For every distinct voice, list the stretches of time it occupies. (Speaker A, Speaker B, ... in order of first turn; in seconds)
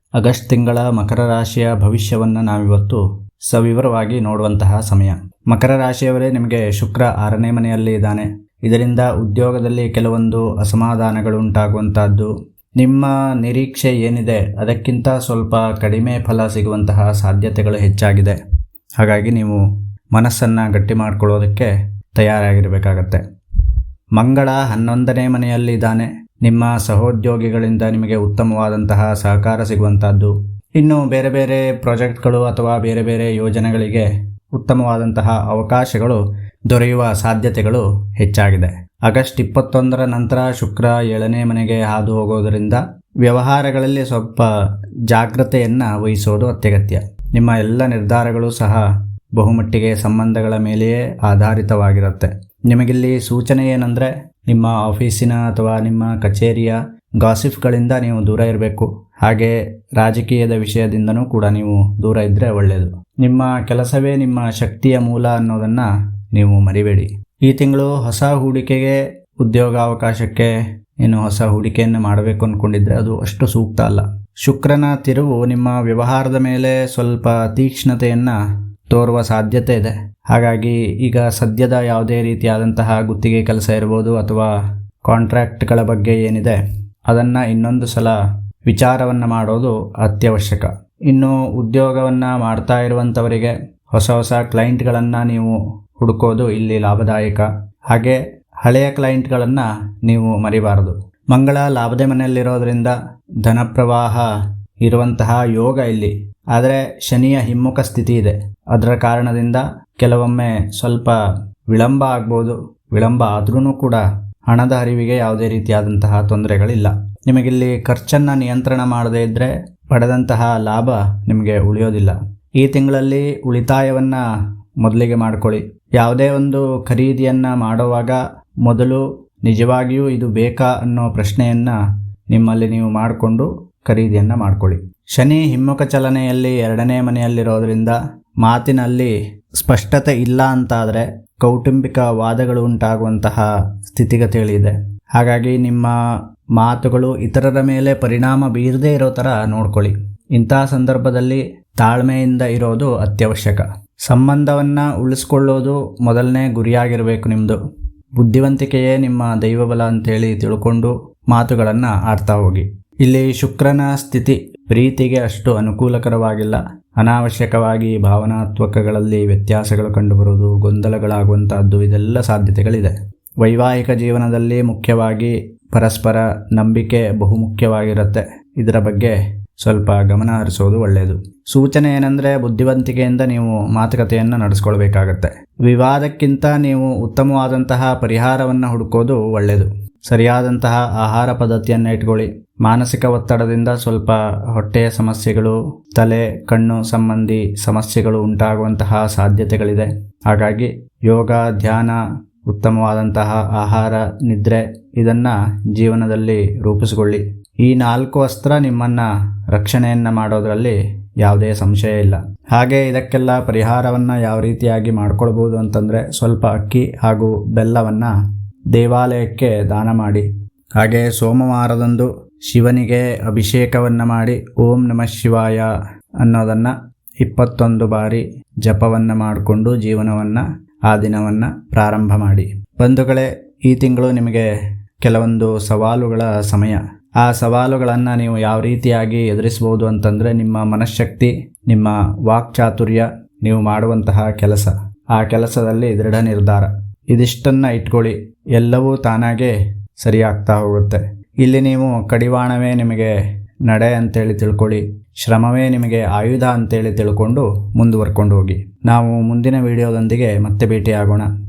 Speaker A: 0.2-3.0, 3.5-18.4, 19.0-19.6, 20.1-23.2, 24.2-44.5, 45.1-48.8, 49.4-70.5, 71.0-78.3, 78.9-84.5, 85.1-86.6, 87.1-88.1, 88.7-104.2, 104.8-111.1, 111.7-124.2, 124.8-131.7, 132.3-145.9, 146.6-157.6, 158.2-172.9, 173.4-202.0, 202.5-218.1, 218.7-220.2, 220.8-225.7, 226.2-234.5, 235.0-253.1, 253.7-261.3